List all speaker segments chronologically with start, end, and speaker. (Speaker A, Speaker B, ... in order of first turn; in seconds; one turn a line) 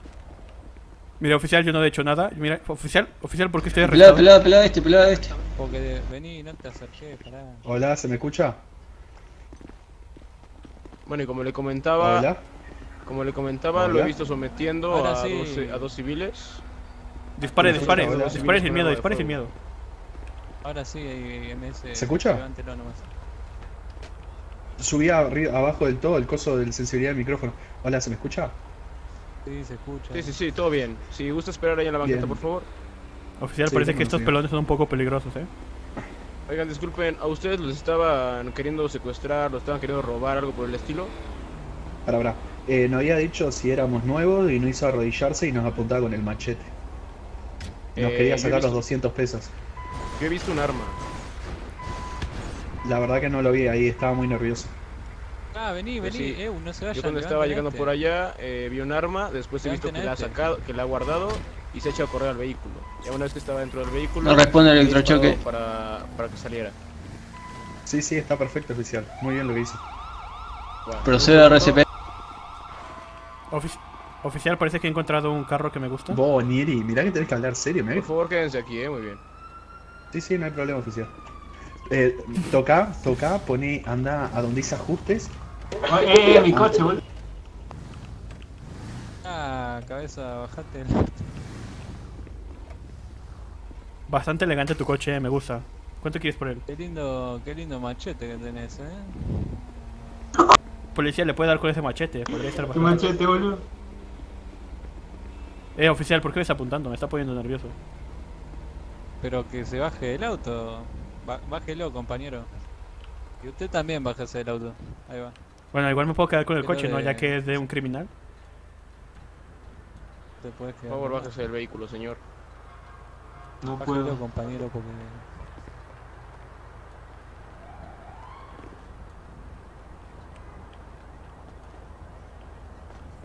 Speaker A: 1.2-4.3
Speaker B: 3.8-5.3
Speaker C: 5.5-7.6
Speaker D: 7.6-8.6
Speaker E: 11.1-12.3
Speaker D: 12.0-12.4
Speaker E: 13.1-16.6
Speaker D: 13.7-14.2
Speaker C: 14.9-16.0
Speaker A: 17.4-19.5
Speaker C: 17.4-17.8
Speaker D: 17.6-18.6
Speaker E: 17.6-19.4
Speaker C: 20.6-23.1
Speaker D: 21.9-22.4
Speaker D: 24.8-28.6
Speaker C: 29.4-30.3
Speaker E: 30.1-32.7
Speaker D: 32.0-32.4
Speaker A: 33.4-35.5
Speaker D: 33.6-34.4
Speaker E: 36.5-41.1
Speaker D: 42.0-46.7
Speaker E: 48.0-48.8
Speaker D: 48.0-49.5
Speaker E: 50.2-51.0
Speaker D: 52.8-54.7
Speaker C: 55.5-57.9
Speaker E: 56.0-56.4
Speaker E: 56.9-66.8
Speaker C: 59.6-60.4
Speaker B: 64.2-65.4
Speaker D: 67.8-69.8
Speaker E: 70.8-71.8
Speaker B: 71.0-71.8
Speaker A: 73.5-76.2
Speaker D: 76.1-78.1
Speaker E: 77.9-79.2
Speaker D: 80.1-81.1
Speaker D: 81.9-85.3
Speaker F: 85.9-87.0
Speaker D: 86.5-86.8
Speaker C: 89.2-91.3
Speaker A: 94.1-96.6
Speaker C: 96.7-99.0
Speaker A: 100.9-103.2
Speaker F: 102.7-103.6
Speaker A: 105.8-107.8
Speaker C: 109.2-112.5
Speaker C: 113.4-115.3
Speaker A: 115.7-118.1
Speaker C: 116.6-117.6
Speaker C: 120.4-121.3
Speaker E: 120.9-122.2
Speaker F: 123.6-124.2
Speaker C: 123.8-125.2